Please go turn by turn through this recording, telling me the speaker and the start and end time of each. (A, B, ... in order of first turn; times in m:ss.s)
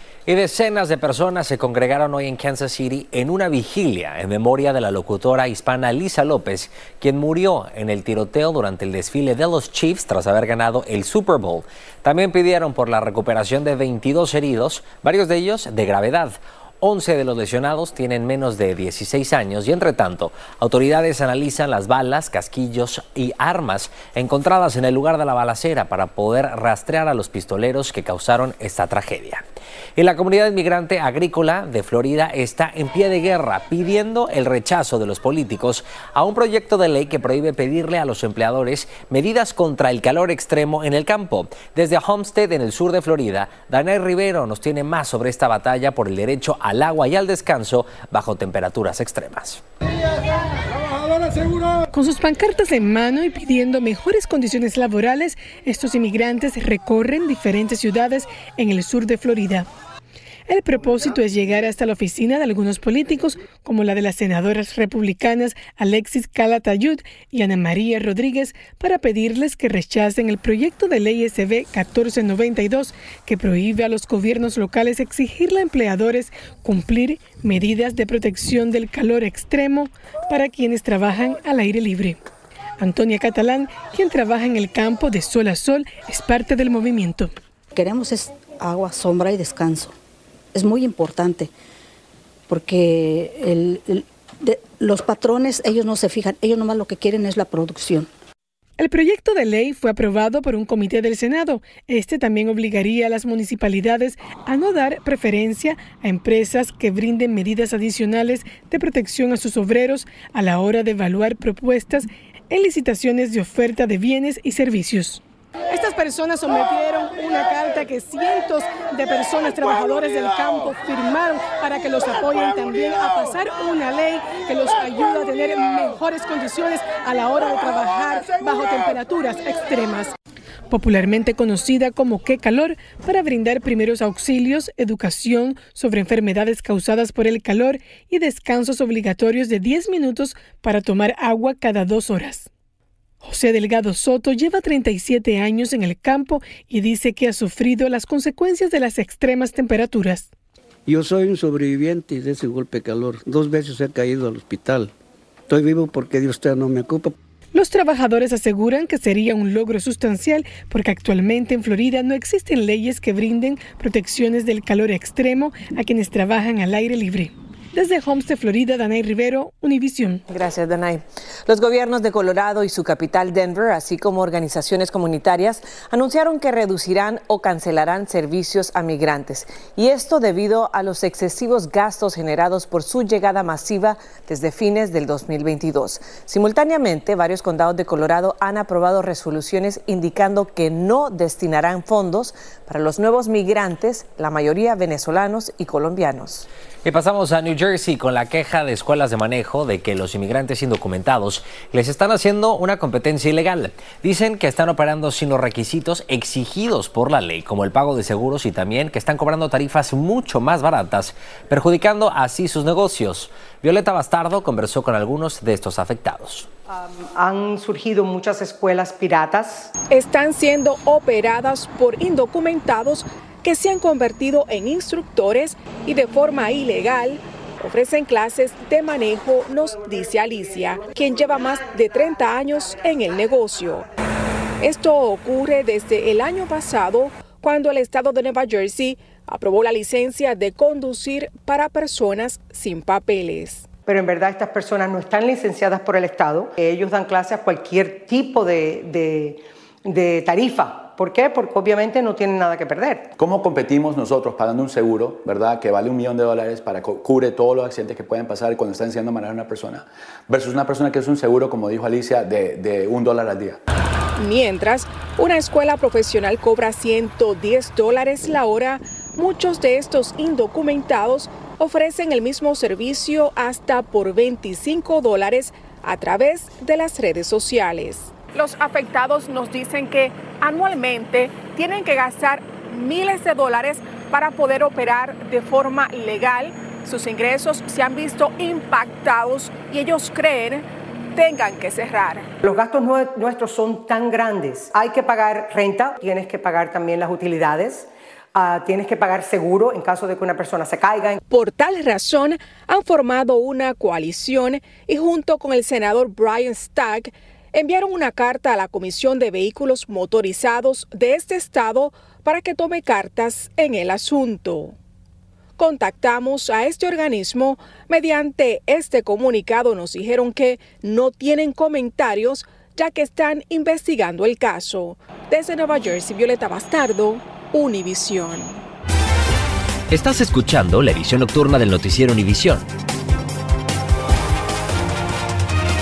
0:00.3-0:29.4 A
0:30.0-0:49.6 A
0:51.9-0:59.7 B
1:00.5-1:22.2 B
1:22.8-1:27.3 B
1:27.7-1:29.9 C
1:30.5-1:31.5 C
1:32.5-1:38.1 C
1:38.8-2:10.1 B
2:10.7-2:22.5 B
2:23.2-2:30.3 B
2:30.9-2:35.0 D
2:35.5-2:37.2 D
2:37.5-2:50.2 B
2:50.3-3:16.5 E
3:16.8-3:36.5 A
3:36.7-3:39.7 F
3:39.9-3:53.9 G
3:54.6-4:03.7 G
4:03.9-4:13.1 F
4:13.2-4:23.6 H
4:24.2-4:52.3 G
4:52.4-5:01.2 F
5:01.3-5:14.8 G
5:15.6-5:28.6 G
5:29.9-5:32.7 A